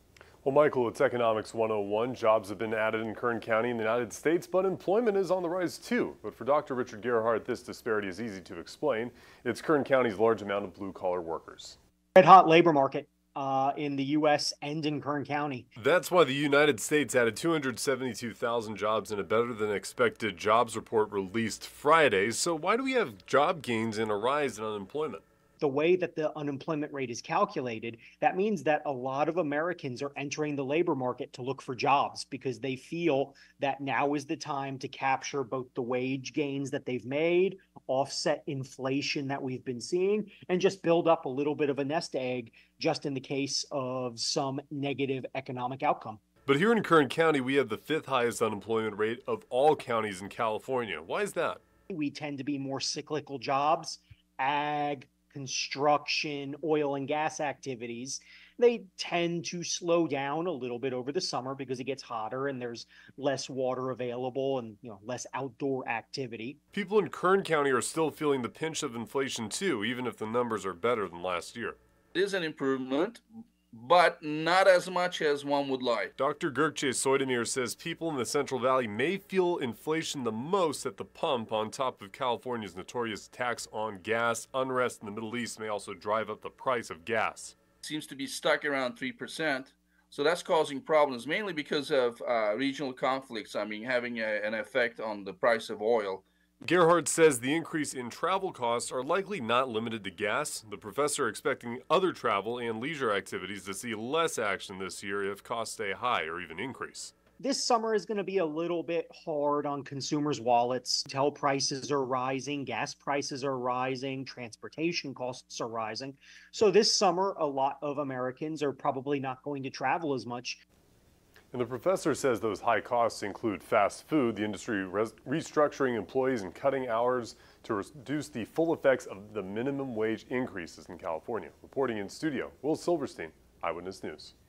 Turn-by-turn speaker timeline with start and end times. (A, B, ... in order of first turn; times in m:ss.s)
0:00.4-0:11.8 A
0:12.2-0:15.7 B
0:15.8-0:25.2 A
0:25.6-0:46.2 B
0:46.4-0:51.6 A
0:51.9-1:06.6 B
1:06.7-1:11.8 A
1:12.1-1:16.1 C
1:16.2-1:27.6 A
1:27.8-1:36.2 C
1:36.6-1:47.1 A
1:47.4-2:00.6 B
2:01.5-2:14.3 A